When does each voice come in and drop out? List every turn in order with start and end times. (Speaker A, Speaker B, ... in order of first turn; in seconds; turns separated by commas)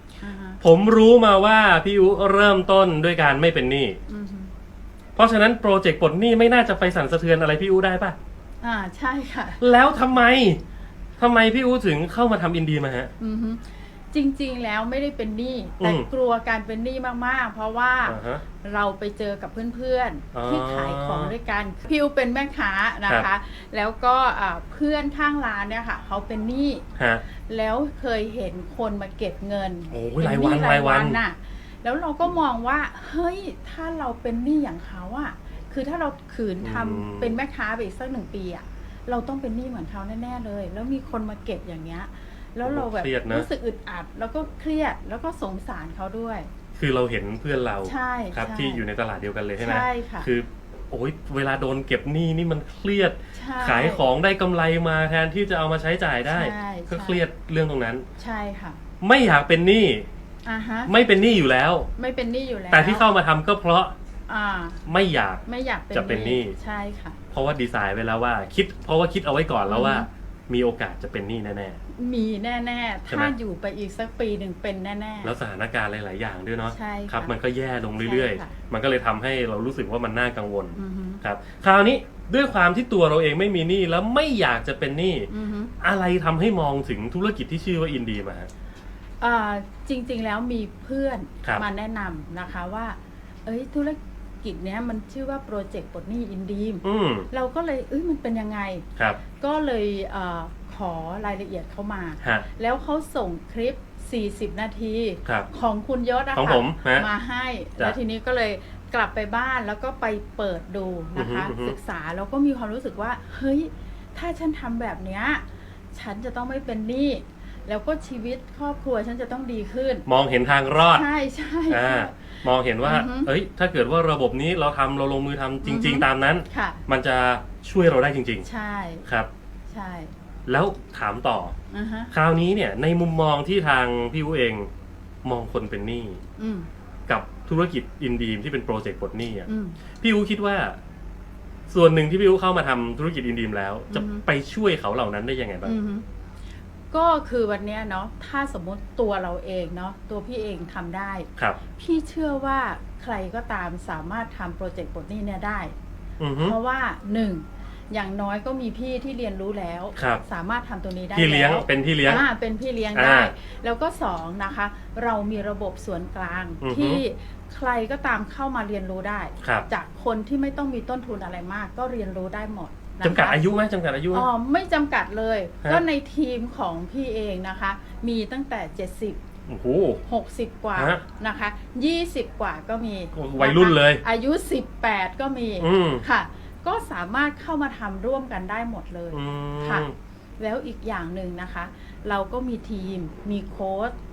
Speaker A: 0.2-0.6, Speaker B: 0.6-4.0, Speaker A: 4.1-4.5, Speaker B: 5.2-8.2, Speaker A: 8.6-9.6, Speaker B: 9.6-10.6, Speaker B: 11.2-13.1, Speaker A: 13.2-46.5, Speaker B: 15.8-16.1, Speaker B: 18.1-18.4, Speaker B: 20.3-21.3, Speaker B: 27.0-27.2, Speaker B: 29.9-31.2, Speaker B: 36.6-37.4, Speaker B: 42.6-43.5, Speaker B: 46.8-58.1, Speaker A: 47.8-48.8, Speaker A: 49.6-50.3, Speaker A: 53.3-54.0, Speaker A: 56.3-57.2, Speaker A: 58.2-58.8, Speaker B: 59.0-60.1, Speaker A: 60.5-60.9, Speaker B: 60.9-61.9, Speaker A: 62.0-63.1, Speaker B: 62.7-63.9, Speaker A: 64.3-64.8, Speaker B: 64.9-66.6, Speaker A: 65.5-67.2, Speaker B: 67.3-71.8, Speaker A: 69.7-70.1, Speaker A: 71.9-75.3, Speaker B: 73.1-73.3, Speaker B: 75.2-85.3, Speaker A: 76.7-77.3, Speaker A: 78.0-78.6, Speaker A: 80.8-81.2, Speaker A: 85.3-85.7, Speaker B: 85.8-88.5, Speaker A: 89.2-98.8, Speaker B: 96.8-97.3, Speaker A: 99.4-120.0, Speaker B: 106.3-107.1, Speaker B: 111.2-111.8, Speaker B: 120.1-121.0, Speaker A: 120.9-123.3, Speaker B: 121.7-128.5, Speaker A: 125.6-126.8, Speaker A: 128.4-129.0, Speaker A: 129.7-130.1, Speaker B: 130.5-131.5, Speaker A: 131.7-132.1, Speaker B: 132.1-134.7, Speaker B: 135.2-136.2, Speaker A: 136.4-136.7, Speaker B: 137.1-139.5, Speaker A: 139.5-139.8, Speaker B: 140.0-140.8, Speaker B: 141.7-145.8, Speaker A: 143.9-144.2, Speaker A: 145.6-146.0, Speaker A: 146.9-155.7, Speaker B: 156.2-156.6, Speaker A: 156.4-173.5, Speaker B: 160.0-160.2, Speaker B: 161.2-162.2, Speaker B: 162.9-163.3, Speaker B: 166.6-167.0, Speaker B: 169.4-169.7, Speaker B: 173.0-174.3, Speaker A: 174.1-179.2, Speaker B: 179.5-180.0, Speaker A: 180.1-189.9, Speaker B: 180.8-181.0, Speaker B: 183.1-184.0, Speaker B: 185.6-186.0, Speaker B: 189.1-189.9, Speaker A: 190.4-193.9